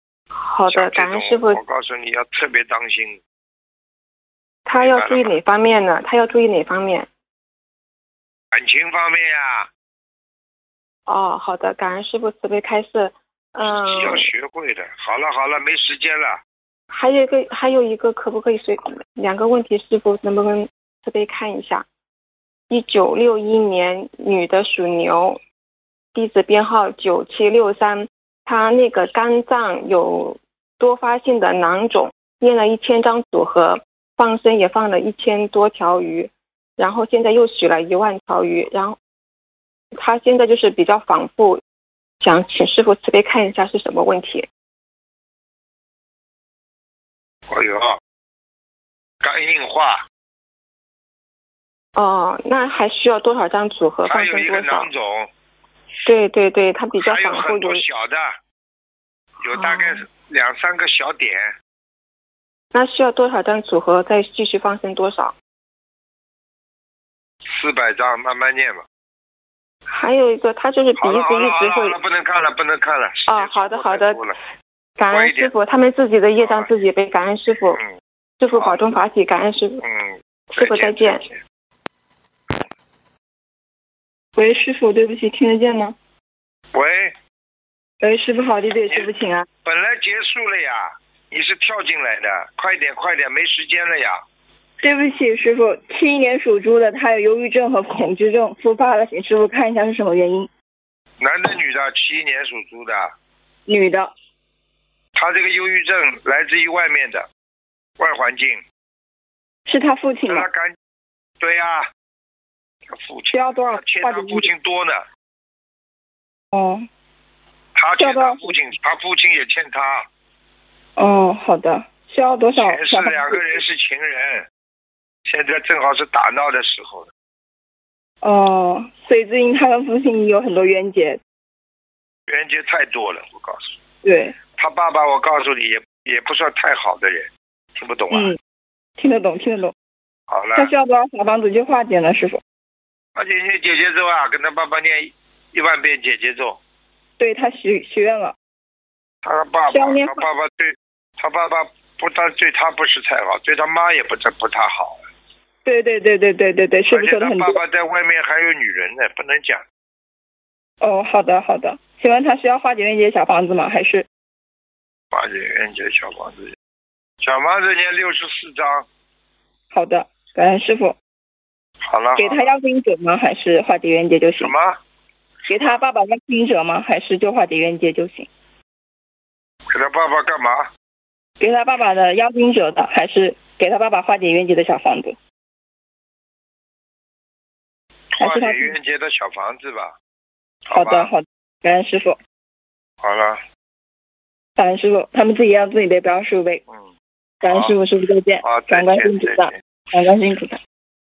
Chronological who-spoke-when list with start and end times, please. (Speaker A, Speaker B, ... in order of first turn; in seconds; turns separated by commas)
Speaker A: 0.4-1.6, Speaker B: 0.7-3.2, Speaker A: 4.7-7.1, Speaker B: 4.8-5.3, Speaker B: 8.5-9.7, Speaker A: 11.1-14.3, Speaker B: 13.6-16.4, Speaker A: 16.9-21.9, Speaker A: 22.7-25.4, Speaker A: 26.1-39.0, Speaker A: 39.9-41.6, Speaker A: 42.2-44.5, Speaker B: 47.5-48.0, Speaker B: 49.2-50.0, Speaker A: 52.0-54.9, Speaker B: 54.0-55.3, Speaker A: 56.0-57.8, Speaker B: 57.0-58.4, Speaker B: 59.4-61.5, Speaker A: 59.5-60.0, Speaker A: 62.7-65.3, Speaker B: 67.5-68.8, Speaker A: 69.9-72.0, Speaker B: 71.0-74.4, Speaker A: 73.3-74.2, Speaker A: 75.0-77.8, Speaker B: 75.1-75.5, Speaker B: 76.4-76.7, Speaker A: 78.4-79.8, Speaker B: 79.8-81.4, Speaker A: 80.5-81.2, Speaker C: 84.3-86.0, Speaker B: 86.7-87.1, Speaker C: 88.0-89.5, Speaker B: 89.6-94.2, Speaker C: 94.8-100.5, Speaker B: 101.2-103.1, Speaker C: 103.7-104.1, Speaker B: 105.2-107.2, Speaker B: 108.0-108.6, Speaker C: 109.7-110.5, Speaker B: 110.2-110.7, Speaker B: 111.4-111.9, Speaker B: 112.9-115.0, Speaker C: 113.3-114.5, Speaker C: 116.5-116.9, Speaker B: 117.7-120.1, Speaker C: 118.0-118.5, Speaker C: 121.0-123.4, Speaker B: 122.5-124.5, Speaker B: 125.2-127.1, Speaker C: 128.2-131.2, Speaker B: 132.3-133.7, Speaker C: 134.0-134.4, Speaker B: 134.6-138.3, Speaker C: 138.1-138.4, Speaker C: 139.0-139.7, Speaker B: 140.3-140.7, Speaker C: 140.5-142.4, Speaker B: 143.2-146.6, Speaker C: 147.2-148.3, Speaker B: 149.2-155.0, Speaker C: 149.7-150.2, Speaker C: 155.6-157.6, Speaker B: 156.9-159.6, Speaker C: 160.8-164.0, Speaker B: 165.1-166.5, Speaker B: 167.2-168.8, Speaker C: 169.7-170.9, Speaker B: 171.8-172.5, Speaker C: 172.2-174.5, Speaker B: 174.4-174.8, Speaker C: 175.5-178.3, Speaker B: 179.7-180.7, Speaker C: 181.4-185.1, Speaker B: 188.2-189.9, Speaker C: 188.2-188.7, Speaker B: 190.7-191.1, Speaker C: 190.7-192.2, Speaker B: 193.0-193.4, Speaker C: 194.6-196.6, Speaker C: 197.4-200.6, Speaker B: 197.5-197.8, Speaker B: 198.4-199.5